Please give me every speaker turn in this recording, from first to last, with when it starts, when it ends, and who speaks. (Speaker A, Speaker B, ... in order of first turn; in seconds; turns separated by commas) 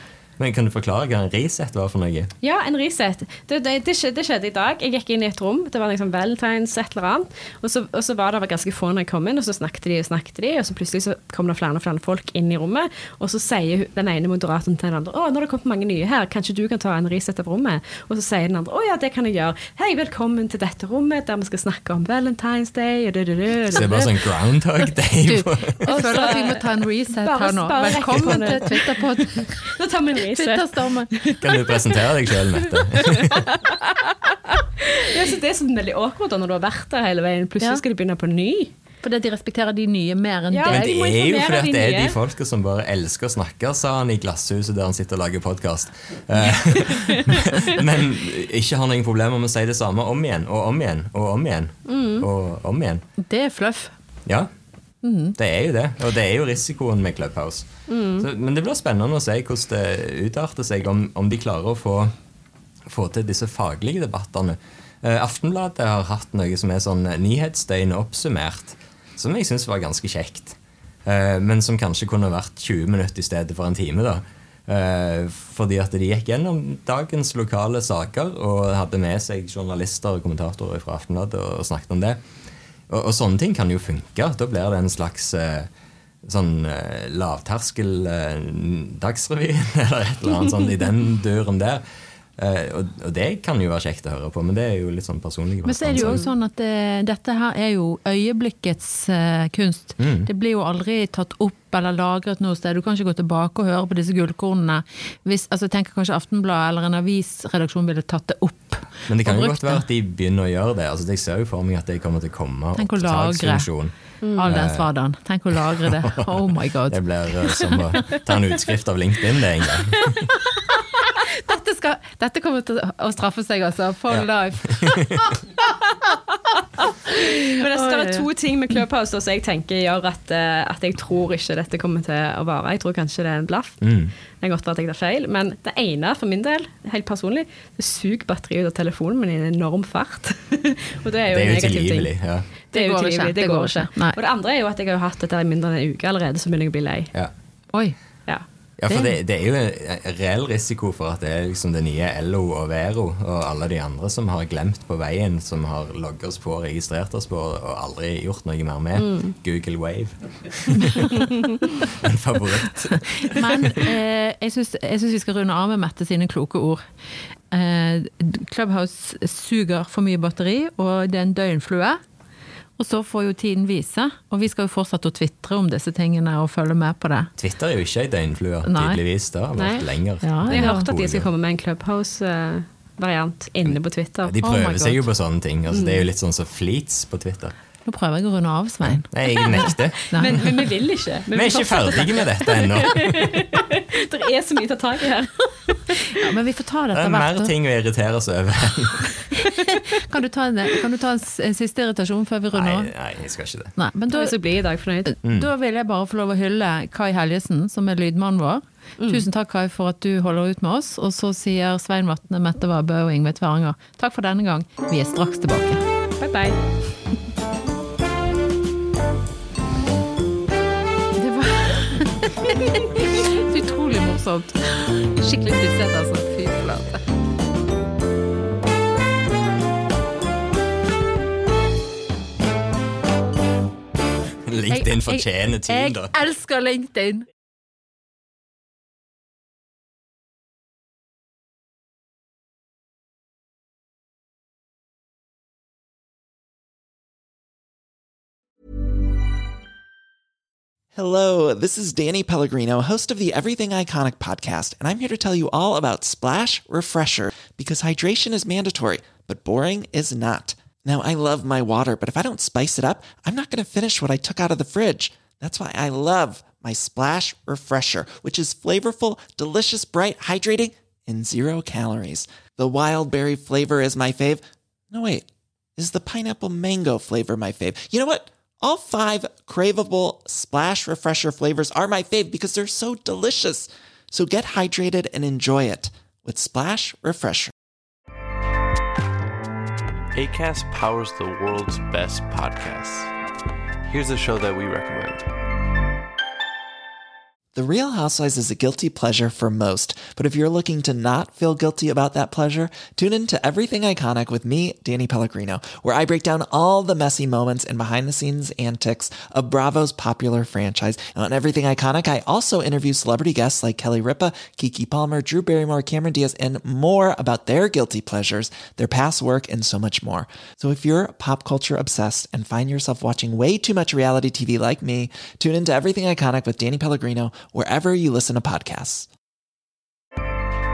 Speaker A: 0.4-2.3, Speaker B: 2.4-24.2, Speaker A: 23.7-26.3, Speaker C: 25.2-29.7, Speaker B: 25.9-38.7, Speaker C: 30.3-31.1, Speaker A: 31.4-33.5, Speaker C: 39.0-40.9, Speaker B: 40.5-42.2, Speaker A: 40.7-53.0, Speaker B: 46.9-47.2, Speaker B: 51.9-52.3, Speaker C: 53.2-53.9, Speaker C: 55.0-55.4, Speaker A: 55.4-62.1, Speaker B: 57.9-58.3, Speaker A: 62.9-82.2, Speaker A: 82.9-85.7, Speaker A: 86.2-91.8, Speaker A: 92.4-96.2, Speaker C: 95.7-109.8, Speaker B: 96.0-96.2, Speaker A: 100.0-100.3, Speaker A: 109.1-114.9, Speaker C: 112.8-113.7, Speaker B: 114.2-114.5, Speaker C: 114.4-117.0, Speaker A: 115.5-120.3, Speaker C: 121.0-125.0, Speaker A: 124.1-125.4, Speaker B: 126.8-133.9, Speaker C: 127.1-128.2, Speaker A: 133.8-134.1, Speaker B: 134.4-142.1, Speaker A: 141.3-142.5, Speaker B: 142.7-147.1, Speaker C: 142.7-144.2, Speaker A: 148.8-163.8, Speaker C: 148.9-149.2, Speaker B: 159.0-159.3, Speaker C: 163.2-166.8, Speaker C: 167.5-172.0, Speaker C: 172.8-177.3, Speaker A: 177.4-181.3, Speaker C: 178.6-179.0, Speaker B: 179.6-179.9, Speaker C: 180.2-180.9, Speaker B: 180.5-184.3, Speaker A: 184.2-187.6, Speaker C: 184.4-185.0, Speaker B: 185.7-186.1, Speaker C: 187.9-190.4, Speaker A: 189.1-190.5, Speaker B: 189.3-196.0, Speaker A: 191.3-193.5, Speaker C: 196.0-197.5, Speaker A: 196.9-199.2, Speaker C: 199.4-202.9, Speaker A: 202.5-203.8, Speaker C: 203.8-204.3, Speaker B: 204.1-205.2, Speaker C: 205.1-215.8, Speaker A: 205.2-205.5, Speaker B: 209.0-209.2, Speaker B: 216.2-216.6, Speaker C: 221.2-227.0, Speaker A: 234.4-236.1, Speaker C: 234.7-237.3, Speaker D: 250.9-287.5, Speaker E: 290.1-293.1, Speaker E: 293.9-295.3, Speaker D: 297.6-329.1